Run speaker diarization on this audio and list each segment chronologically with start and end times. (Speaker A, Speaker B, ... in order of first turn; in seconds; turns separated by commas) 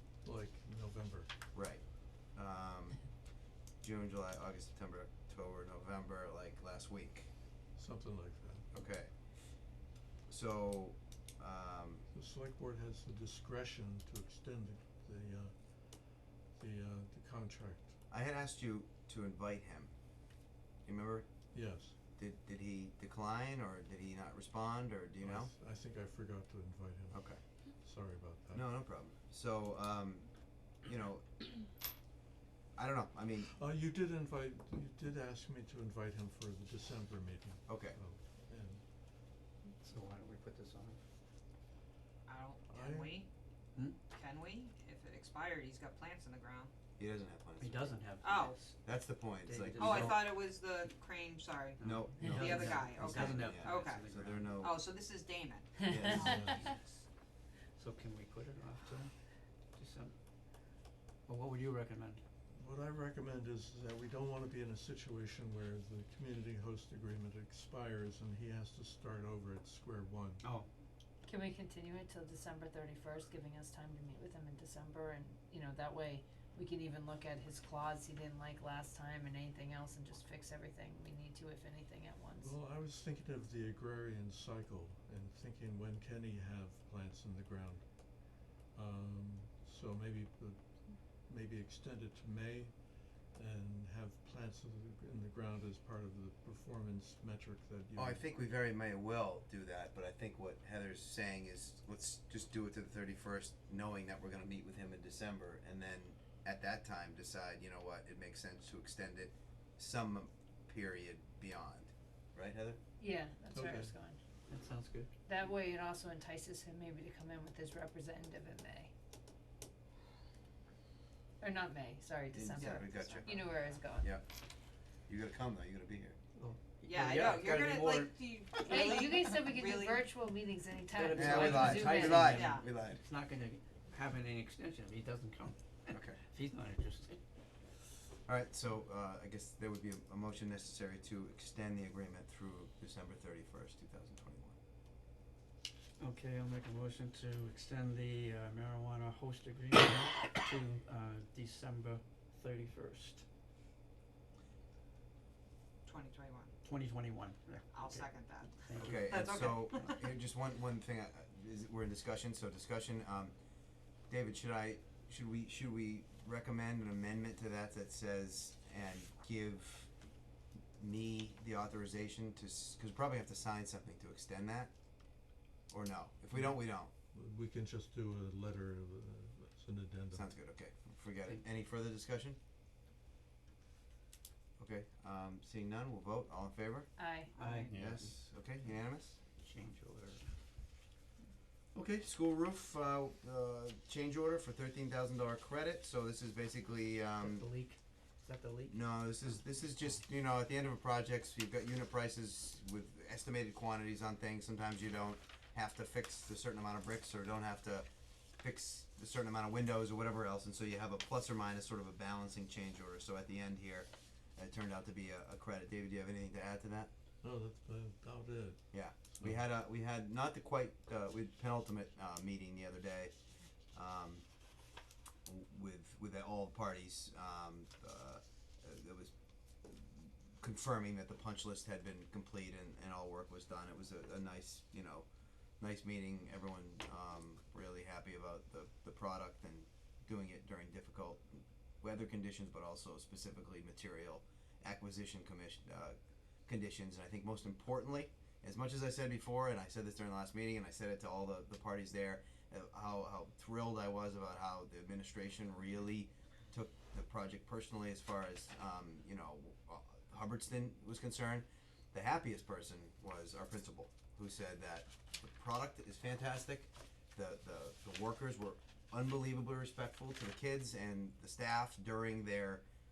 Speaker A: 0.2-1.3, Speaker B: 1.5-3.0, Speaker B: 3.8-7.3, Speaker A: 7.8-8.7, Speaker B: 8.7-9.1, Speaker B: 10.3-12.1, Speaker A: 12.1-18.0, Speaker B: 18.1-19.9, Speaker B: 20.9-21.3, Speaker A: 21.5-22.0, Speaker B: 22.2-25.5, Speaker A: 25.2-28.7, Speaker B: 27.1-27.4, Speaker B: 28.5-30.3, Speaker B: 30.9-31.4, Speaker B: 32.8-33.5, Speaker A: 33.5-38.8, Speaker B: 37.7-38.0, Speaker C: 39.8-41.0, Speaker D: 42.3-43.3, Speaker A: 42.7-43.2, Speaker D: 44.1-46.7, Speaker B: 47.0-48.0, Speaker C: 47.6-50.3, Speaker D: 48.2-48.6, Speaker B: 48.8-50.3, Speaker D: 49.8-54.1, Speaker C: 51.8-54.6, Speaker B: 51.8-54.8, Speaker D: 54.6-55.8, Speaker B: 55.9-56.6, Speaker E: 56.1-56.4, Speaker A: 56.1-56.6, Speaker C: 56.1-56.7, Speaker C: 57.8-60.1, Speaker C: 61.3-62.2, Speaker A: 62.5-70.4, Speaker E: 71.2-82.5, Speaker A: 82.4-98.2, Speaker B: 98.0-112.8, Speaker E: 113.0-114.2, Speaker A: 113.5-113.9, Speaker C: 114.5-115.1, Speaker E: 115.3-118.9, Speaker E: 121.4-124.1, Speaker B: 122.3-124.2, Speaker B: 125.1-126.2, Speaker C: 126.4-128.9, Speaker D: 126.8-130.1, Speaker E: 128.6-132.4, Speaker C: 130.9-137.2, Speaker B: 131.1-133.0, Speaker D: 132.3-132.7, Speaker B: 135.9-136.2, Speaker B: 138.3-144.6, Speaker C: 146.0-153.2, Speaker D: 155.8-156.5, Speaker C: 156.6-159.6, Speaker D: 157.7-160.0, Speaker B: 158.8-163.3, Speaker B: 164.1-169.9, Speaker B: 170.8-174.7, Speaker B: 175.7-176.9, Speaker A: 176.3-176.6, Speaker A: 177.1-180.3, Speaker B: 180.1-182.4, Speaker B: 184.6-186.9, Speaker E: 187.0-187.3, Speaker C: 187.4-188.2, Speaker B: 187.7-189.2, Speaker C: 189.4-190.3, Speaker B: 191.8-197.5, Speaker C: 197.2-198.7, Speaker B: 198.7-207.9, Speaker B: 208.4-216.9, Speaker A: 217.2-218.6, Speaker B: 218.7-223.1, Speaker A: 219.1-219.4, Speaker B: 223.7-224.2, Speaker B: 225.3-229.1, Speaker B: 229.6-235.1, Speaker B: 235.6-272.6